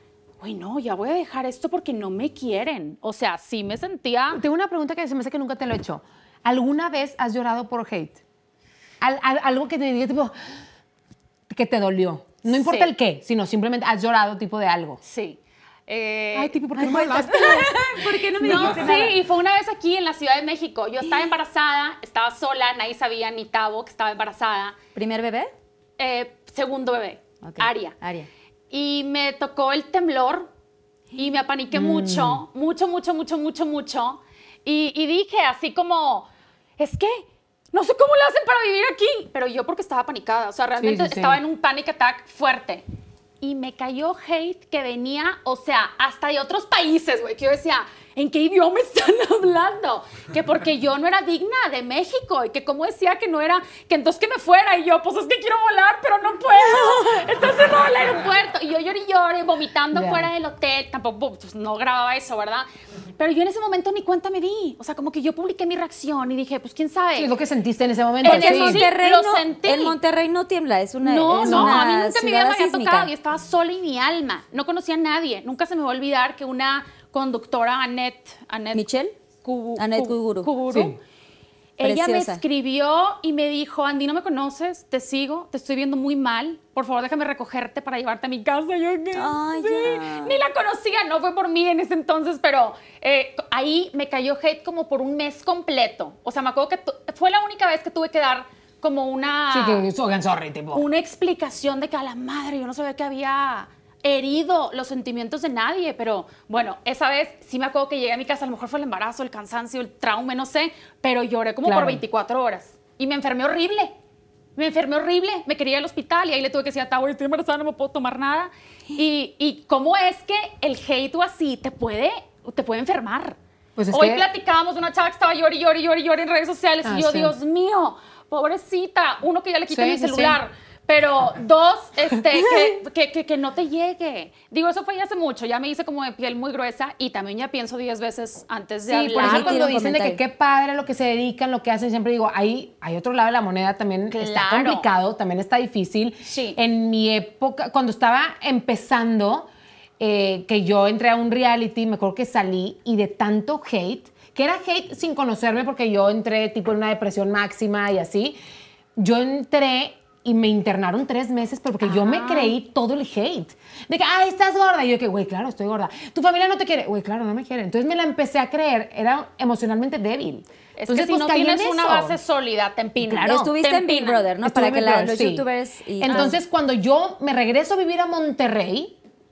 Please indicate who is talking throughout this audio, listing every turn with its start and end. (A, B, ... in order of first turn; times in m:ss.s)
0:00.4-0:04.4 A
0:04.3-0:08.2 B
0:09.0-0:10.3 B
0:11.5-0:15.0 B
0:12.5-0:12.9 A
0:15.0-0:24.8 A
0:16.4-0:17.8 B
0:16.8-0:19.2 C
0:18.5-0:18.9 B
0:25.0-0:25.5 C
0:26.0-0:28.0 A
0:27.4-0:28.3 C
0:28.7-0:30.5 A
0:31.1-0:42.8 A
0:31.7-0:32.4 B
0:40.8-0:41.4 B
0:43.4-1:07.3 A
0:59.9-1:00.3 B
1:07.2-1:08.8 B
1:08.2-1:10.0 A
1:08.2-1:13.1 C
1:11.0-1:18.8 A
1:11.4-1:11.8 B
1:18.7-1:19.2 C
1:19.4-1:21.0 A
1:19.8-1:20.5 C
1:20.7-1:21.0 B
1:21.8-1:39.8 A
1:21.8-1:22.4 C
1:29.1-1:30.4 C
1:39.5-1:40.8 B
1:40.7-1:53.9 A
1:51.6-1:52.0 B
1:54.6-2:03.4 A
2:03.8-2:04.2 B
2:03.9-2:19.6 A
2:06.8-2:07.4 B
2:09.7-2:10.4 B
2:18.9-2:38.4 B
2:19.2-2:20.2 C
2:24.1-2:24.9 A
2:26.2-2:26.6 A
2:39.0-2:52.2 B
2:41.8-2:42.6 A
2:50.8-2:54.3 A
2:53.0-2:53.5 B
2:53.3-2:56.4 C
2:54.4-2:55.4 B
2:56.0-2:59.0 B